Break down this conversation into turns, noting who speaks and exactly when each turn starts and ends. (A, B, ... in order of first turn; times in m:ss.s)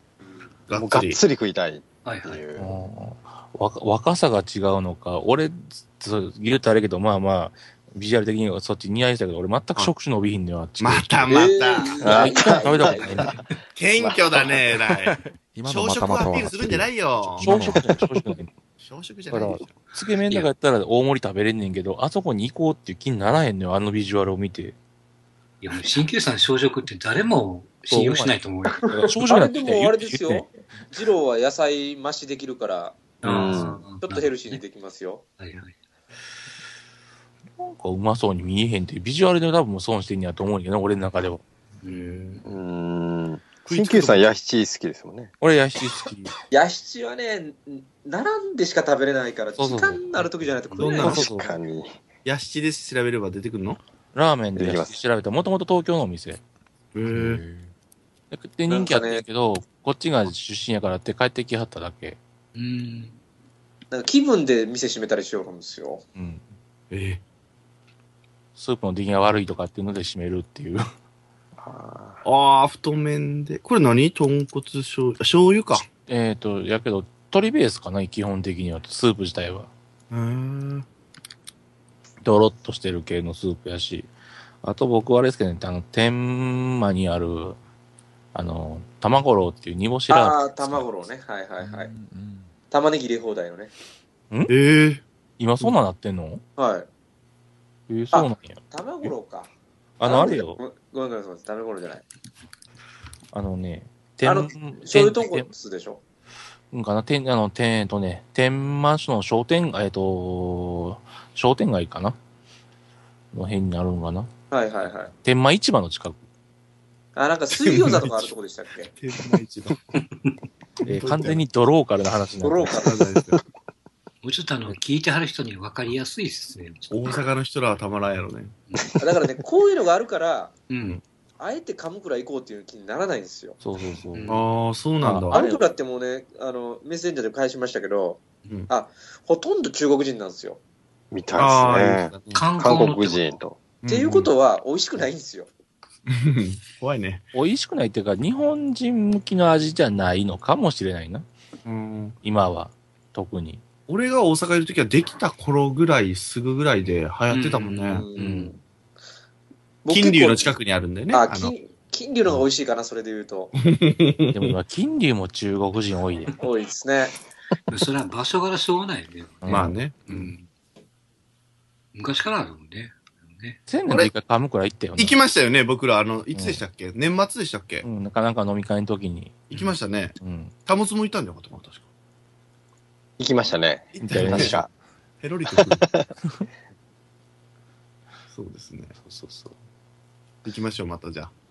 0:00.7-0:01.2 A
0:00.7-0:02.7 B
0:02.0-0:02.4 C
0:02.6-0:11.5 D
0:10.8-0:12.1 A
0:11.3-0:13.3 E
0:12.0-0:13.2 B
0:12.0-0:13.4 D
0:13.7-0:17.7 A
0:14.0-0:14.6 B
0:15.1-0:18.0 F
0:17.4-0:18.5 D
0:18.8-0:19.8 A
0:19.3-0:24.7 D
0:25.6-0:28.9 C
0:27.9-0:28.4 D
0:28.9-0:30.5 D
0:29.2-0:33.2 E
0:33.2-0:34.6 C
0:33.2-0:33.9 B
0:33.3-0:33.7 A
0:33.9-0:35.2 E
0:35.4-0:35.7 C
0:37.6-0:41.4 D
0:41.8-0:42.4 C
0:42.4-0:45.3 B
0:43.6-0:44.4 A
0:45.4-0:46.3 D
0:46.5-0:51.2 E
0:49.6-0:50.3 D
0:50.7-0:51.0 C
0:50.8-0:51.4 A
0:51.0-0:51.5 D
0:51.1-0:52.0 B
0:52.2-0:53.8 A
0:54.1-0:56.4 D
0:54.6-0:55.0 B
0:56.9-0:57.4 A
0:57.1-0:57.7 F
0:58.3-1:02.2 D
0:58.7-0:59.2 E
1:02.5-1:03.2 C
1:03.9-1:06.0 E
1:06.1-1:06.4 D
1:06.9-1:07.2 A
1:08.6-1:10.8 D
1:11.6-1:12.2 B
1:12.2-1:15.8 A
1:16.1-1:19.7 D
1:20.1-1:20.8 A
1:22.2-1:24.1 D
1:24.6-1:27.6 D
1:28.3-1:30.9 D
1:30.1-1:31.9 E
1:31.6-1:32.5 F
1:32.7-1:33.7 E
1:34.5-1:35.0 A
1:35.4-1:36.4 D
1:36.6-1:36.9 E
1:37.9-1:39.1 D
1:38.1-1:39.5 E
1:40.0-1:40.6 D
1:40.0-1:42.0 E
1:43.3-1:45.5 D
1:44.2-1:46.0 E
1:46.7-1:52.2 D
1:53.3-1:54.3 D
1:54.5-1:55.1 E
1:55.2-1:56.2 D
1:57.2-1:58.9 E
1:57.5-1:58.3 A
1:58.9-1:59.8 A
2:00.8-2:01.4 A
2:00.8-2:02.8 D
2:02.4-2:03.1 E
2:02.8-2:03.4 A
2:04.2-2:07.2 C
2:06.9-2:08.5 A
2:09.0-2:10.6 E
2:10.7-2:11.0 C
2:11.4-2:13.6 E
2:13.6-2:14.4 D
2:14.1-2:14.5 C
2:14.3-2:15.4 A
2:15.0-2:15.6 D
2:15.3-2:20.6 E
2:21.1-2:23.6 B
2:21.4-2:22.5 A
2:22.3-2:23.3 C
2:23.8-2:24.3 A
2:23.9-2:25.5 E
2:26.1-2:27.2 A
2:27.3-2:31.2 D
2:31.6-2:32.2 A
2:32.2-2:33.6 D
2:33.9-2:38.0 A
2:37.3-2:38.5 C
2:37.9-2:38.6 E
2:38.2-2:38.5 D
2:39.8-2:40.5 E
2:39.9-2:41.5 A
2:41.1-2:43.5 E
2:43.6-2:44.6 A
2:44.3-2:46.3 D
2:46.4-2:47.1 E
2:47.7-2:50.5 C
2:49.4-2:49.7 D
2:49.5-2:50.3 A
2:51.9-2:53.6 C
2:53.7-2:55.2 D
2:53.9-2:54.1 A
2:55.0-2:57.8 A
2:56.3-2:56.6 D
2:57.8-2:59.4 D
2:59.5-3:01.8 A
3:00.2-3:00.5 D
3:03.2-3:04.7 B
3:03.9-3:04.6 A
3:04.0-3:04.6 D
3:05.2-3:05.9 A
3:05.6-3:06.1 B
3:08.3-3:08.9 A
3:09.0-3:09.5 D
3:10.4-3:11.3 A